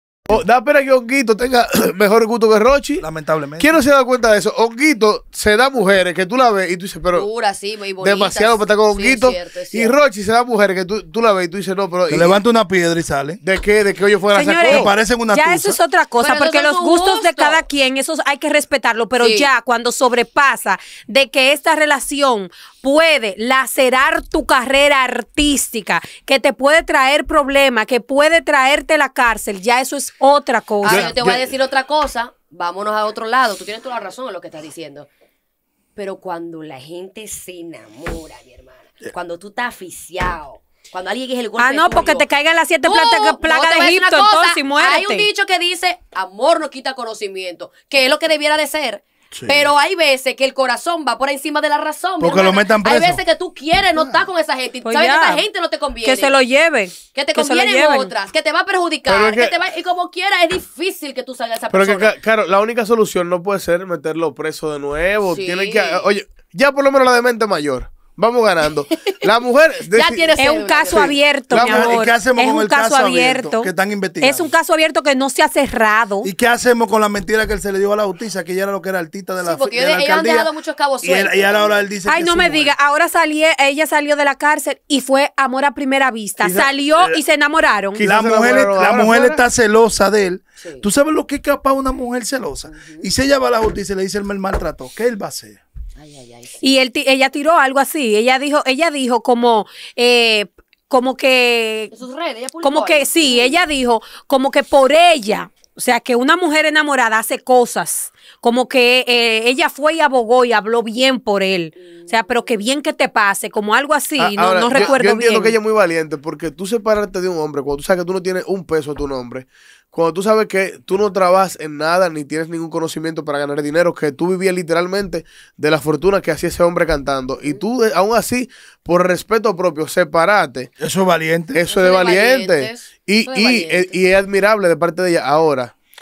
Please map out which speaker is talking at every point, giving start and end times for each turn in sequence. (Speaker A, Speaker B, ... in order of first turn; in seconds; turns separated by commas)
Speaker A: 0.3-3.0, Speaker B: 3.0-3.8, Speaker A: 3.6-7.3, Speaker C: 7.1-9.9, Speaker A: 8.0-12.4, Speaker B: 12.1-13.4, Speaker A: 13.4-14.9, Speaker D: 14.3-31.1, Speaker B: 14.6-15.8, Speaker C: 16.2-17.6, Speaker C: 19.2-19.5, Speaker C: 30.8-35.1, Speaker A: 31.0-31.4, Speaker C: 36.0-42.2, Speaker D: 41.6-45.3, Speaker C: 42.8-56.4, Speaker B: 49.3-49.7, Speaker B: 52.2-53.2, Speaker D: 54.8-55.5, Speaker D: 56.0-58.1, Speaker C: 57.1-62.1, Speaker A: 59.1-59.5, Speaker A: 61.7-70.3, Speaker C: 65.3-66.1, Speaker C: 69.9-71.2, Speaker D: 70.4-76.3, Speaker A: 70.9-72.1, Speaker B: 71.5-74.5, Speaker B: 76.2-82.7, Speaker C: 79.4-81.9, Speaker D: 82.0-88.0, Speaker A: 86.4-86.7, Speaker A: 87.9-89.4, Speaker B: 88.0-95.6, Speaker C: 92.7-93.0, Speaker C: 96.0-96.7, Speaker D: 96.6-101.9, Speaker C: 101.9-103.6, Speaker D: 102.6-115.5, Speaker A: 114.2-130.7, Speaker B: 130.8-131.6, Speaker A: 131.5-135.7, Speaker C: 131.7-134.0